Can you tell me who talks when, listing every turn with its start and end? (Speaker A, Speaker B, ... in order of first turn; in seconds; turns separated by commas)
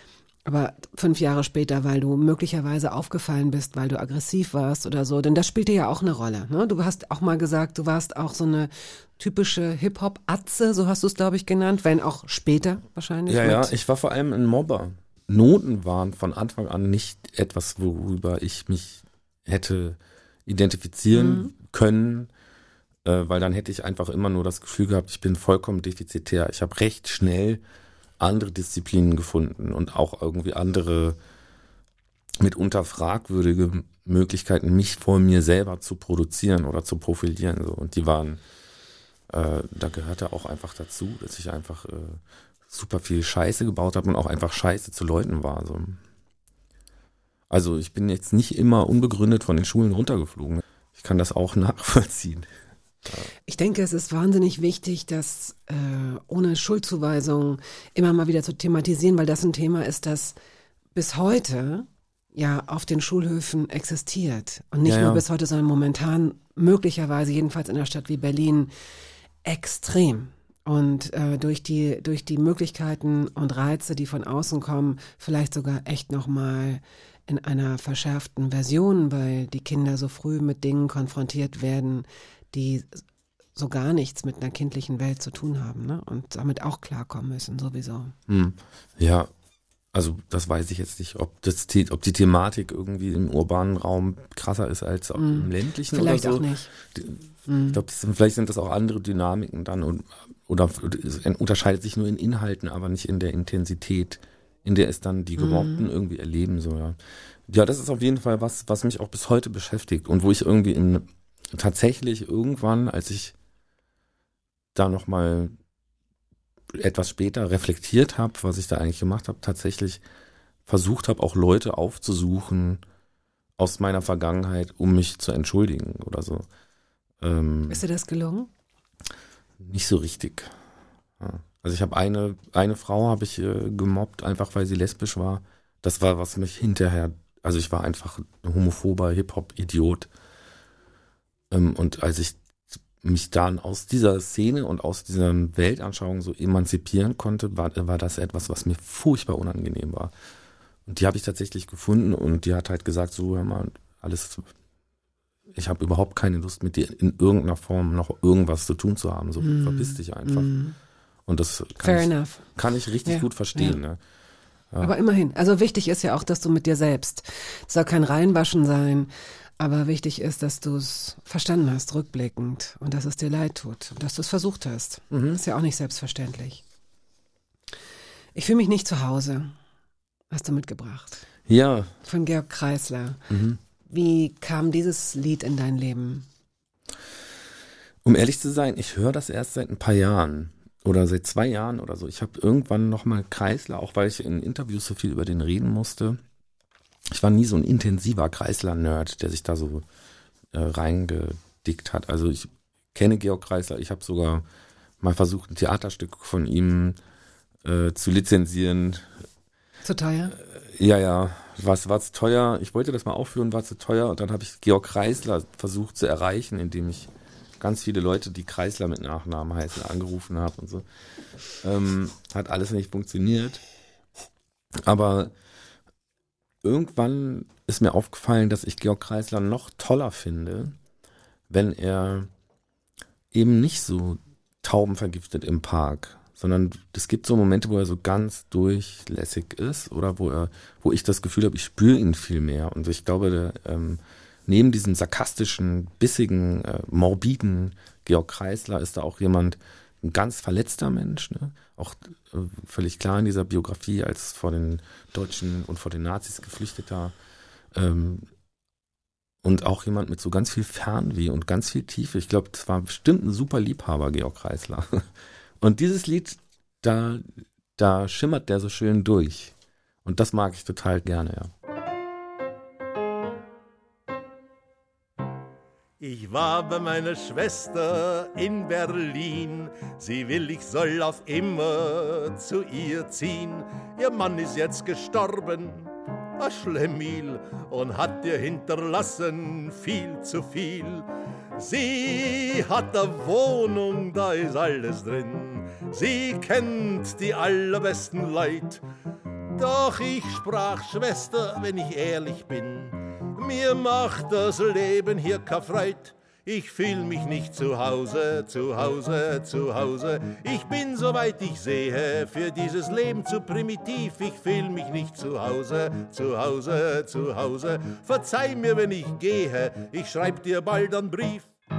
Speaker A: 0.5-13.7, Speaker B: 13.3-22.3, Speaker A: 21.1-21.5, Speaker B: 23.1-27.6, Speaker B: 28.2-31.2, Speaker B: 32.4-38.4, Speaker B: 39.3-46.0, Speaker B: 47.5-52.5, Speaker A: 53.5-60.4, Speaker A: 61.0-68.7, Speaker B: 64.8-65.2, Speaker A: 69.5-83.0, Speaker A: 83.6-88.1, Speaker B: 88.3-89.3, Speaker B: 89.9-113.3, Speaker A: 95.2-96.7, Speaker A: 97.5-97.8, Speaker A: 105.4-105.9, Speaker B: 114.8-115.6, Speaker B: 116.7-120.0, Speaker B: 120.7-122.8, Speaker B: 123.6-126.5, Speaker B: 127.2-127.8, Speaker A: 127.7-128.5, Speaker B: 129.6-130.5, Speaker B: 131.2-140.1, Speaker B: 141.5-142.4, Speaker B: 143.0-150.1, Speaker B: 150.9-154.5, Speaker B: 155.5-160.5, Speaker A: 159.4-160.8, Speaker B: 161.3-164.0, Speaker A: 161.8-162.4, Speaker A: 163.1-163.8, Speaker A: 164.8-176.6, Speaker B: 175.1-175.4, Speaker A: 178.3-179.6, Speaker A: 180.3-181.3, Speaker B: 181.5-181.9, Speaker A: 182.0-183.2, Speaker B: 183.3-183.6, Speaker A: 183.9-186.3, Speaker B: 188.0-196.2, Speaker B: 197.1-199.9, Speaker B: 200.5-204.4, Speaker B: 205.0-207.0, Speaker B: 207.7-209.2, Speaker A: 209.8-210.4, Speaker B: 210.4-220.8, Speaker B: 221.6-223.6, Speaker B: 224.8-225.3, Speaker B: 226.6-230.8, Speaker B: 231.5-232.3, Speaker B: 233.3-257.1, Speaker B: 257.7-258.3, Speaker B: 259.4-265.1, Speaker B: 265.6-269.5, Speaker B: 270.1-271.5, Speaker C: 276.0-298.8, Speaker C: 299.5-321.5